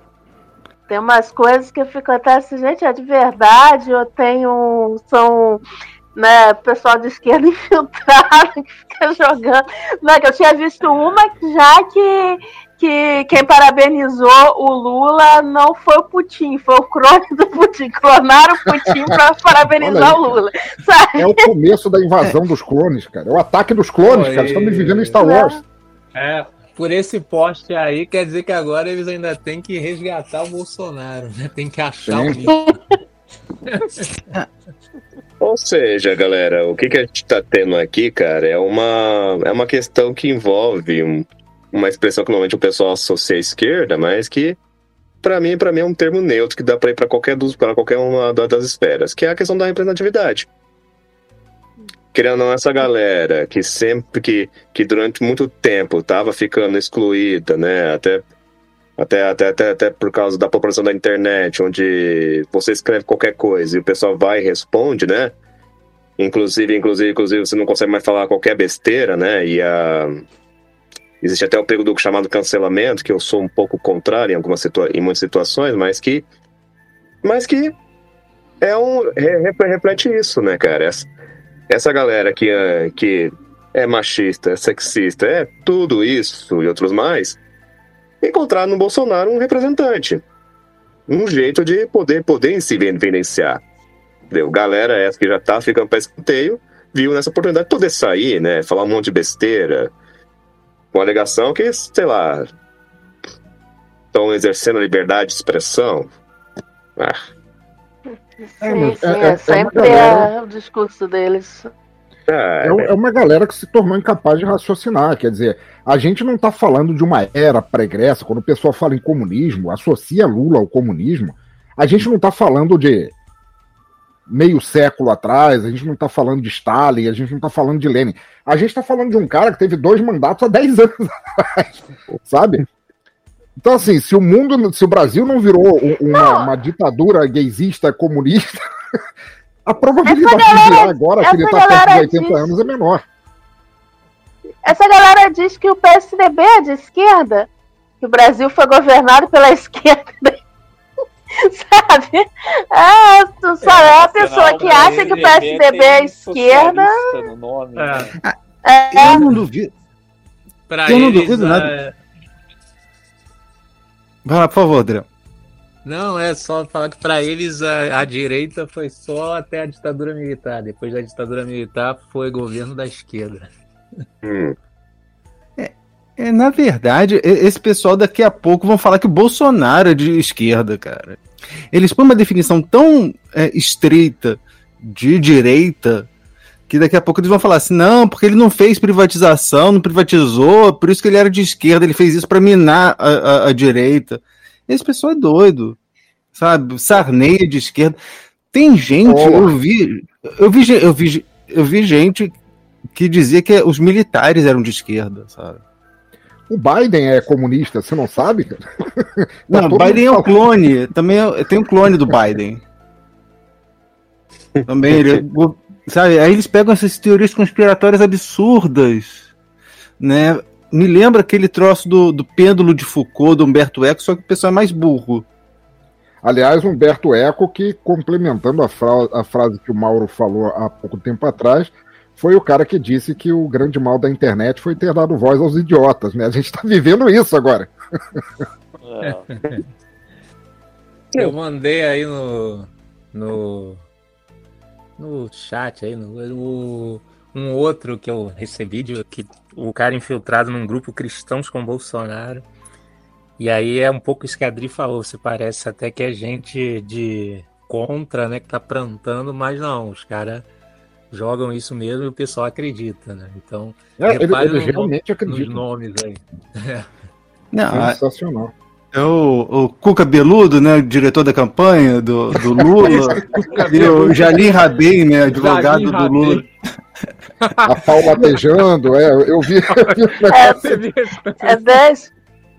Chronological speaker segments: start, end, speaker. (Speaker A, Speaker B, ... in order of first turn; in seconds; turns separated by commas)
Speaker A: 0.9-5.6, Speaker A: 6.1-21.5, Speaker B: 19.8-20.4, Speaker B: 21.1-25.6, Speaker C: 24.0-25.2, Speaker A: 25.2-25.6, Speaker C: 26.1-32.8, Speaker B: 32.1-32.4, Speaker C: 33.7-34.0, Speaker D: 35.4-44.6, Speaker D: 45.2-50.5, Speaker D: 52.1-58.2, Speaker D: 59.0-65.3, Speaker D: 66.2-70.2, Speaker D: 71.2-76.2, Speaker D: 77.2-77.7, Speaker D: 78.6-81.1, Speaker D: 81.7-87.4, Speaker D: 88.2-90.2, Speaker D: 91.1-93.6, Speaker D: 94.3-99.9, Speaker D: 100.9-102.5, Speaker D: 104.1-106.1, Speaker A: 108.4-111.7, Speaker B: 108.6-110.3, Speaker D: 112.3-112.9, Speaker B: 112.6-123.1, Speaker B: 124.3-132.6, Speaker B: 133.6-138.6, Speaker A: 136.1-136.5, Speaker B: 139.7-143.0, Speaker A: 140.0-142.5, Speaker A: 144.6-147.5, Speaker A: 148.0-150.4, Speaker A: 151.4-157.0, Speaker E: 153.6-158.2, Speaker C: 154.7-155.4, Speaker C: 157.8-158.1, Speaker A: 158.6-159.2, Speaker F: 158.9-159.7, Speaker C: 160.7-161.9, Speaker F: 160.8-161.7, Speaker F: 164.2-165.1, Speaker C: 165.8-173.5, Speaker D: 174.2-174.6, Speaker F: 175.6-181.2, Speaker F: 181.7-186.1, Speaker F: 186.7-195.8, Speaker F: 196.3-198.0, Speaker F: 198.5-202.3, Speaker B: 199.0-199.6, Speaker F: 202.9-205.6, Speaker B: 206.5-210.3, Speaker F: 209.5-212.6, Speaker F: 214.7-219.2, Speaker F: 220.0-225.2, Speaker B: 226.2-237.7, Speaker E: 238.8-239.2, Speaker C: 239.0-239.6, Speaker C: 241.2-243.8, Speaker C: 245.0-252.4, Speaker C: 253.4-260.4, Speaker C: 261.1-266.9, Speaker B: 264.0-265.6, Speaker F: 267.5-268.0, Speaker B: 267.7-268.5, Speaker F: 268.9-276.4, Speaker C: 272.5-276.4, Speaker C: 277.4-278.3, Speaker B: 277.7-280.6, Speaker C: 279.7-281.8, Speaker A: 280.3-280.7, Speaker A: 281.4-282.1